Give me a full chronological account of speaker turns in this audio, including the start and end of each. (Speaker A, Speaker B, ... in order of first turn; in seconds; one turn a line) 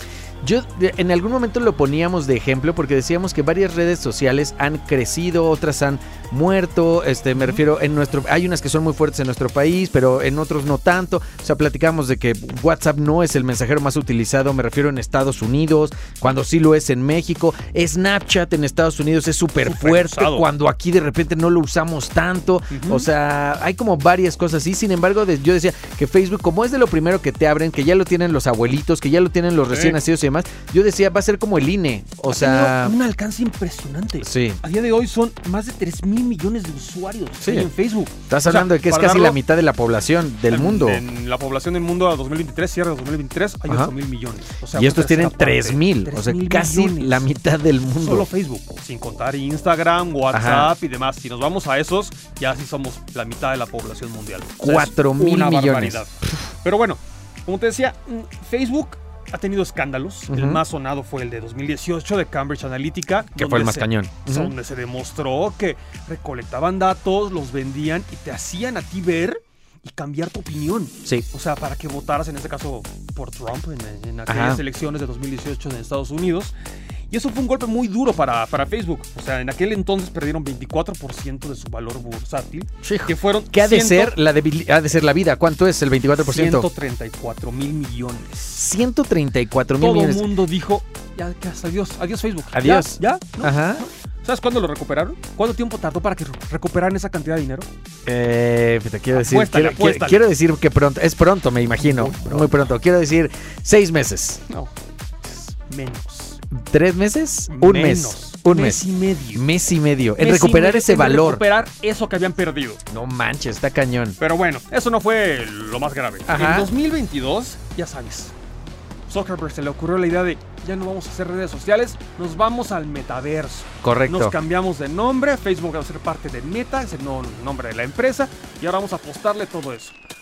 Speaker A: 0.4-33.0
Speaker B: 19.6-20.4
Speaker B: 22.7-23.1
Speaker B: 29.7-30.0
Speaker B: 32.3-39.4
Speaker A: 34.2-34.6
Speaker A: 37.4-37.7
Speaker A: 38.3-41.0
Speaker B: 40.5-47.3
Speaker A: 44.7-48.3
Speaker B: 48.0-56.1
Speaker A: 50.3-50.8
Speaker A: 54.6-56.3
Speaker B: 56.6-76.5
Speaker A: 60.3-60.6
Speaker A: 63.4-64.5
Speaker A: 74.3-74.6
Speaker B: 77.1-84.2
Speaker A: 82.8-86.7
Speaker B: 86.2-88.6
Speaker A: 88.5-90.3
Speaker B: 89.8-97.7
Speaker A: 92.5-93.9
Speaker A: 98.1-104.4
Speaker B: 99.1-100.2
Speaker B: 101.8-102.7
Speaker B: 104.5-106.4
Speaker A: 106.5-111.4
Speaker B: 107.5-109.5
Speaker B: 110.2-112.8
Speaker A: 112.9-114.2
Speaker B: 114.2-118.3
Speaker A: 116.3-116.7
Speaker B: 119.1-129.9
Speaker A: 123.8-124.3